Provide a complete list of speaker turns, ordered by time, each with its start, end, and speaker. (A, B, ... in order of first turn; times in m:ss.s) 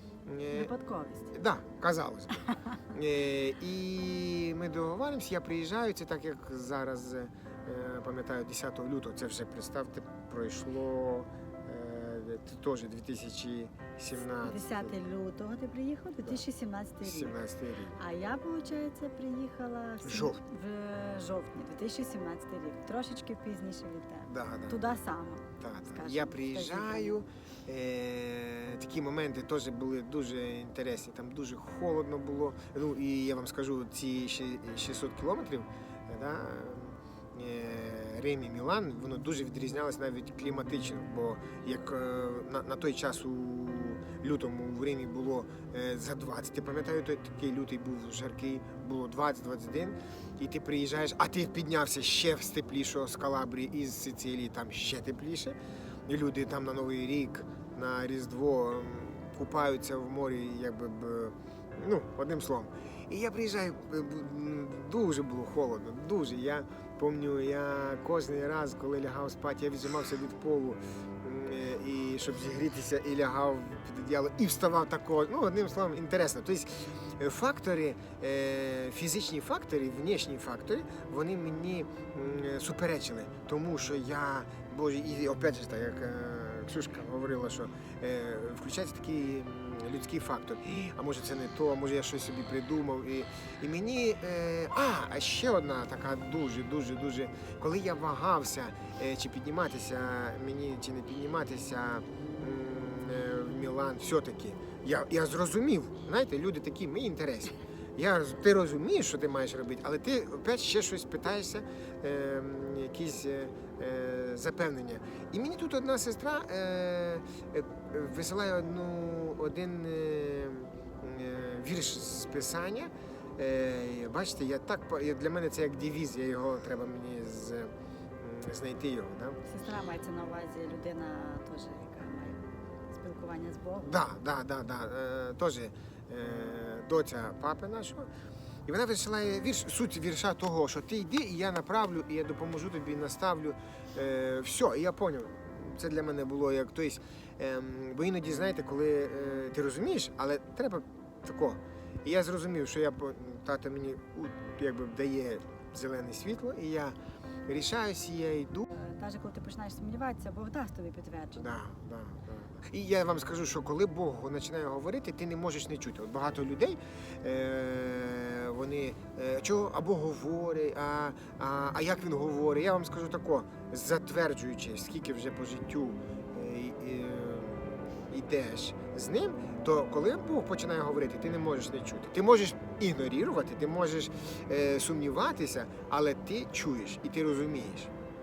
0:00.3-0:00.7 A
0:00.5-0:01.3 B
0:01.3-0:15.0 A
0:14.4-0:17.4 B
0:17.0-0:18.0 A
0:18.0-0:27.2 B
0:20.0-0:20.4 A
0:24.3-0:25.0 A
0:25.6-0:55.6 A
0:56.1-2:09.4 A
2:09.5-2:14.0 B
2:13.8-2:18.1 A
2:18.7-2:37.0 A
2:37.5-2:38.6 A
2:38.7-2:41.5 B
2:41.4-3:07.9 A